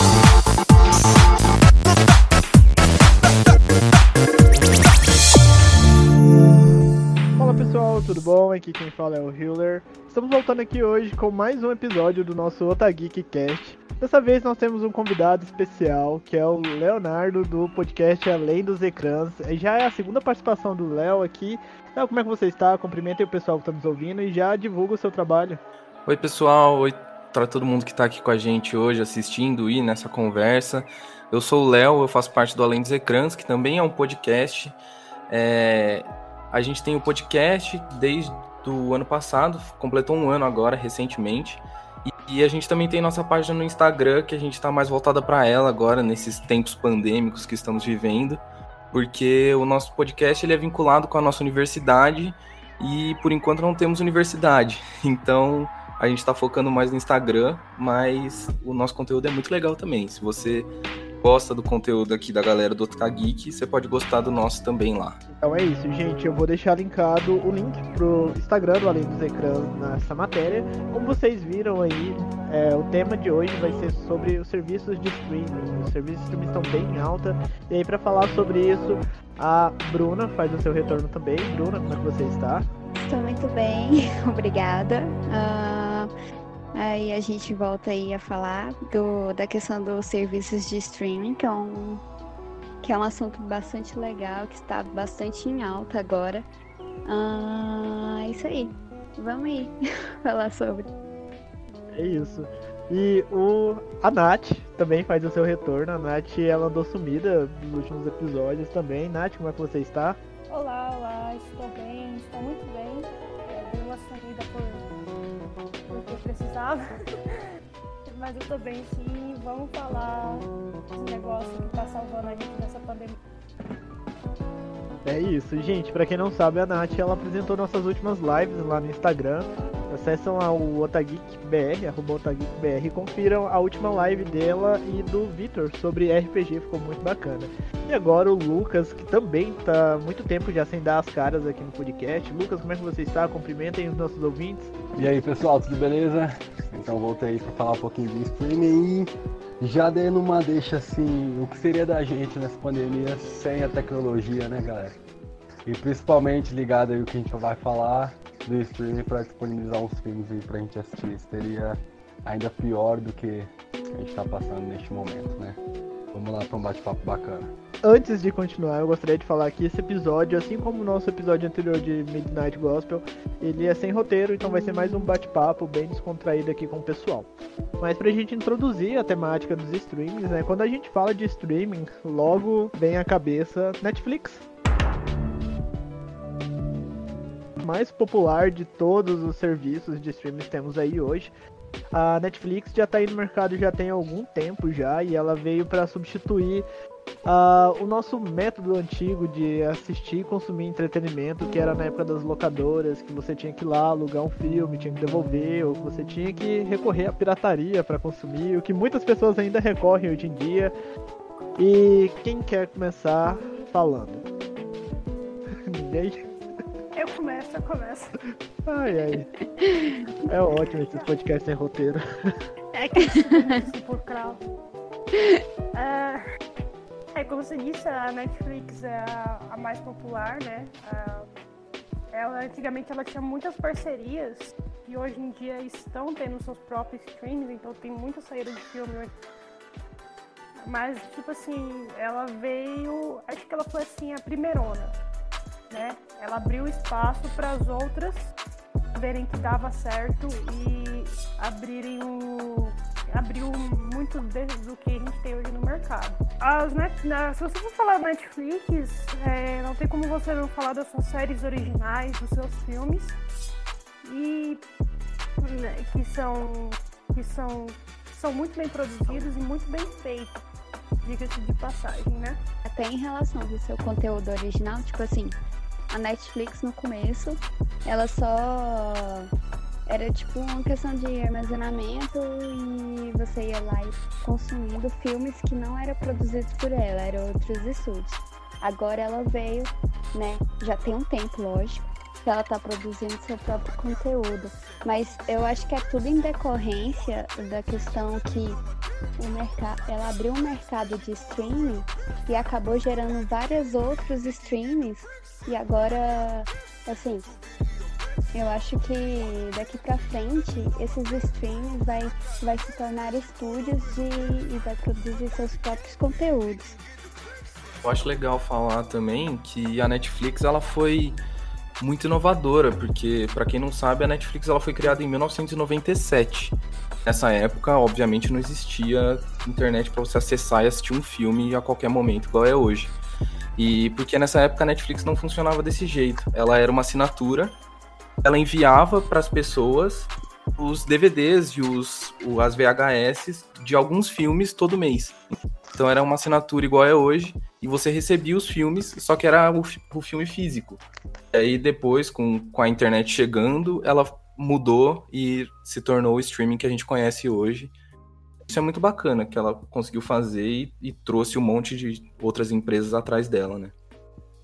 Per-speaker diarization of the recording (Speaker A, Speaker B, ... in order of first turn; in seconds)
Speaker A: 7.4-25.6, 65.3-82.7, 101.9-110.2, 125.0-144.8, 167.8-184.5, 187.6-191.3, 191.9-196.7, 197.2-210.7, 211.6-214.3, 215.7-216.2, 218.7-219.3, 220.3-222.0
Speaker B: 26.1-34.8, 35.3-65.2, 317.8-321.2, 321.8-333.0, 333.6-337.6, 338.2-345.2, 345.7-350.8, 351.3-357.7, 358.5-363.8
Speaker C: 83.0-86.1, 86.8-92.0, 92.8-96.5, 97.1-99.7, 100.2-100.9, 219.6-220.0, 272.7-275.4, 275.9-279.3, 279.9-298.6, 299.2-307.3, 308.3-316.8
Speaker D: 110.5-114.9, 115.9-116.8, 118.1-123.2, 216.9-218.2, 222.7-224.4, 225.7-226.2, 227.1-231.3, 232.1-239.1, 240.6-245.0, 245.7-248.3, 248.9-263.2, 264.0-264.6, 265.4-270.4, 271.0-272.4
Speaker E: 144.9-155.0, 155.7-165.6, 166.1-167.5